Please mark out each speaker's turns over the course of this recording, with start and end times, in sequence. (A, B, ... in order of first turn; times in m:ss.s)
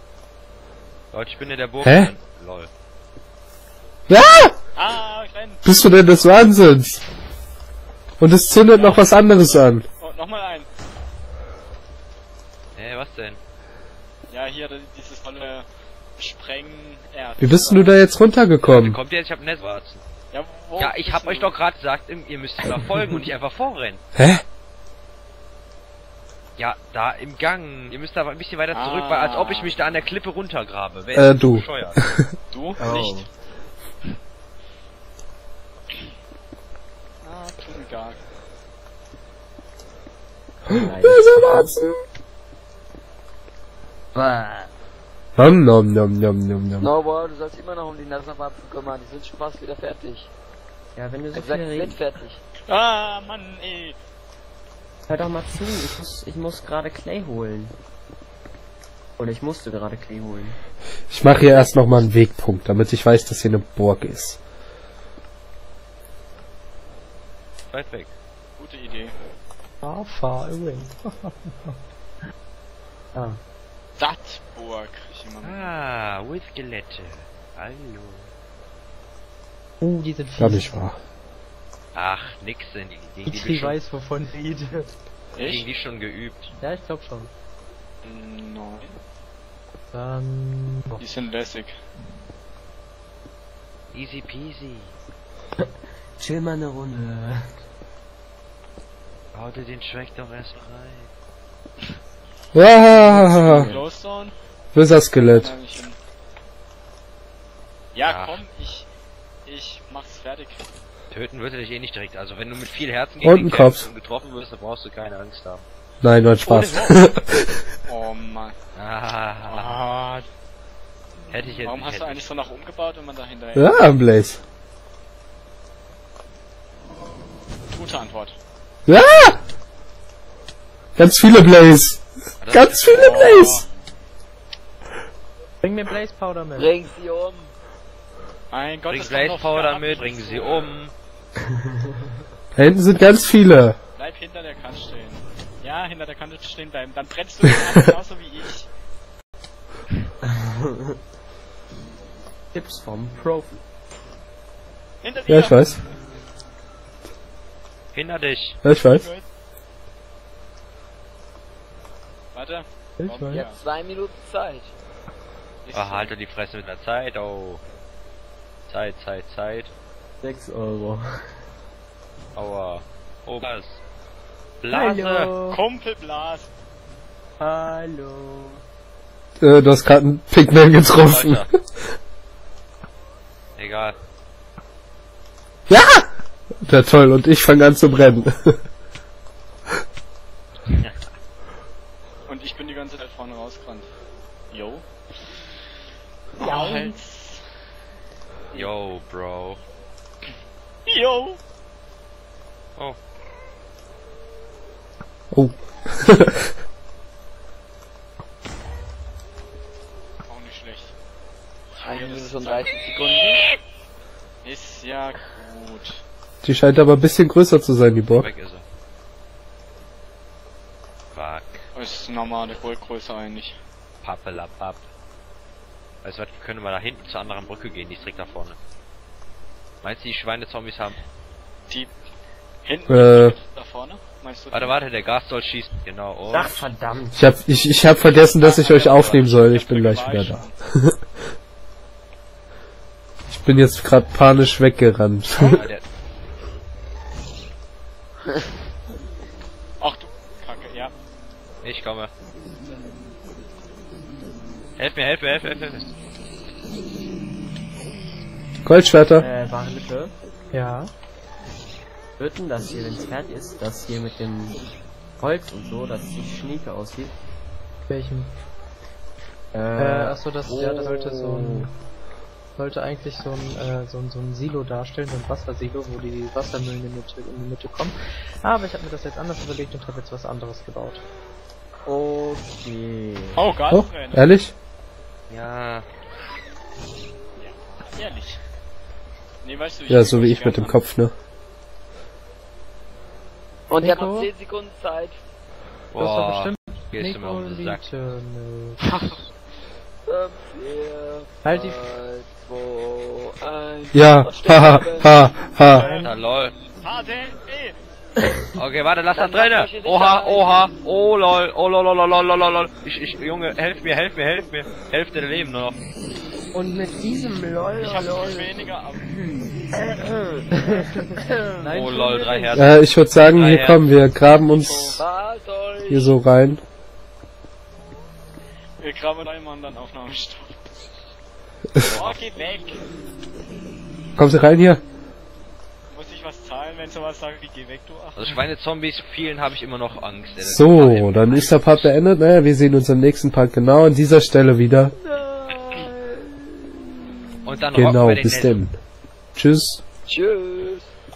0:01.1-0:02.7 A
0:01.8-0:02.1 B
0:04.1-0:04.5 B
0:04.8-0:05.8 C
0:05.6-0:07.0 B
0:08.2-0:09.8 B
0:08.7-0:10.7 C
0:12.8-0:13.4 A
0:14.3-0:15.6 C
0:16.2-0:18.0 C
0:17.4-0:19.0 B
0:18.6-0:20.0 A
0:20.3-0:21.5 C
0:20.8-0:24.0 A
0:24.1-0:24.4 B
0:26.6-0:32.0 A
0:28.7-0:29.8 C
0:31.1-0:32.3 B
0:32.5-0:33.2 C
0:32.8-0:33.3 D
0:37.2-0:38.2 C
0:40.7-0:41.3 D
0:40.7-0:42.0 B
0:44.1-0:44.7 E
0:45.4-0:46.9 B
0:46.8-0:50.3 E
0:50.9-0:52.0 D
0:51.3-0:52.4 E
0:52.7-0:54.0 C
0:55.1-0:57.8 D
0:59.2-1:00.6 D
1:01.1-1:04.4 B
1:07.7-1:08.1 A
1:08.6-1:09.1 C
1:09.8-1:11.8 F
1:14.0-1:15.7 C
1:15.4-1:18.3 A
1:19.8-1:20.8 F
1:20.4-1:21.0 B
1:21.9-1:23.8 A
1:23.2-1:24.9 F
1:25.4-1:25.6 C
1:25.4-1:26.5 A
1:26.6-1:27.3 F
1:28.0-1:28.9 C
1:29.9-1:31.0 F
1:31.0-1:31.8 C
1:33.9-1:34.9 A
1:35.6-1:37.5 D
1:39.3-1:41.1 A
1:42.5-1:43.7 B
1:43.3-1:43.7 D
1:43.5-1:43.8 A
1:43.5-1:44.3 C
1:44.7-1:45.5 B
1:45.2-1:46.0 C
1:47.9-1:48.9 C
1:48.0-1:48.4 A
1:49.4-1:50.6 C
1:51.1-1:55.6 A
1:53.2-1:53.9 B
1:56.0-1:57.6 B
1:56.4-1:57.0 C
1:57.9-1:58.5 C
1:58.8-1:59.8 A
1:59.4-2:00.3 C
2:01.3-2:02.2 A
2:01.6-2:03.8 C
2:03.6-2:04.4 B
2:07.7-2:08.4 C
2:08.9-2:09.4 B
2:11.0-2:13.6 B
2:12.4-2:13.2 A
2:12.9-2:13.6 C
2:15.6-2:16.8 F
2:16.5-2:17.5 E
2:18.5-2:20.7 C
2:18.9-2:20.9 A
2:21.5-2:22.0 D
2:22.6-2:23.8 B
2:24.0-2:28.7 C
2:30.2-2:31.0 D
2:32.5-2:33.6 D
2:35.0-2:35.9 C
2:35.3-2:35.8 B
2:37.9-2:38.6 A
2:38.6-2:39.1 B
2:38.8-2:39.2 C
2:42.3-2:43.6 C
2:43.0-2:43.5 F
2:43.3-2:44.7 E
2:45.6-2:46.1 C
2:45.7-2:47.6 A
2:48.7-2:49.7 A
2:50.2-2:51.3 D
2:52.4-2:53.8 A
2:54.6-2:55.3 A
2:54.7-2:55.6 D
2:55.0-2:55.5 F
2:55.4-2:56.5 C
2:57.4-2:58.6 D
2:59.4-3:01.6 B
3:01.0-3:01.5 A
3:03.6-3:03.9 A
3:05.7-3:06.1 B
3:06.6-3:08.6 B
3:10.7-3:11.0 A
3:12.3-3:13.9 C
3:14.5-3:14.8 C
3:16.4-3:17.5 C
3:16.4-3:16.9 D
3:18.6-3:19.6 A
3:20.9-3:21.4 C
3:25.3-3:26.5 B
3:30.2-3:30.9 C
3:31.8-3:33.2 C
3:31.8-3:33.5 E
3:34.4-3:36.0 C
3:36.4-3:38.3 B
3:38.1-3:38.6 A
3:41.1-3:41.6 A
3:41.7-3:43.6 C
3:44.0-3:44.8 A
3:46.0-3:48.6 A
3:49.8-3:51.0 A
3:52.6-3:54.7 C
3:52.9-3:53.4 B
3:54.5-3:56.6 A
3:56.3-3:57.2 D
3:57.1-4:01.0 B
3:58.4-4:00.5 C
4:03.3-4:05.6 B
4:05.4-4:05.8 A
4:09.8-4:10.9 C
4:11.6-4:12.1 A
4:14.8-4:15.9 A
4:18.6-4:19.2 B
4:19.2-4:20.1 D
4:20.5-4:20.9 F
4:22.2-4:24.6 D
4:25.2-4:27.1 D
4:27.9-4:28.3 F
4:29.5-4:31.7 D
4:29.8-4:31.7 F
4:32.6-4:41.0 F
4:41.8-4:43.4 D
4:43.4-4:44.2 C
4:43.7-4:44.5 B
4:45.3-4:45.9 A
4:47.4-4:48.4 C
4:49.4-4:50.8 C
4:49.9-4:51.1 B
4:53.7-4:55.2 E
4:53.8-4:54.3 F
4:55.9-4:57.8 A
4:56.0-4:59.2 F
5:00.1-5:05.1 E
5:01.4-5:01.8 F
5:03.9-5:05.9 B
5:05.6-5:06.1 F
5:05.6-5:06.0 C
5:06.0-5:06.6 A
5:06.8-5:07.8 C
5:08.6-5:15.8 A
5:09.1-5:10.7 E
5:16.5-5:21.7 D
5:17.8-5:19.0 C
5:21.6-5:22.7 F
5:21.7-5:23.8 A
5:22.6-5:25.0 B
5:24.4-5:25.0 C
5:24.9-5:26.1 E
5:25.9-5:26.6 B
5:28.8-5:30.6 C
5:31.8-5:32.2 A
5:31.8-5:32.8 C
5:34.2-5:34.8 B
5:35.9-5:38.4 C
5:38.2-5:41.9 A
5:40.4-5:44.9 B
5:45.0-5:45.9 D
5:45.5-5:45.9 E
5:47.4-5:48.7 A
5:47.7-5:48.8 B
5:49.4-5:49.8 B
5:50.1-5:50.9 E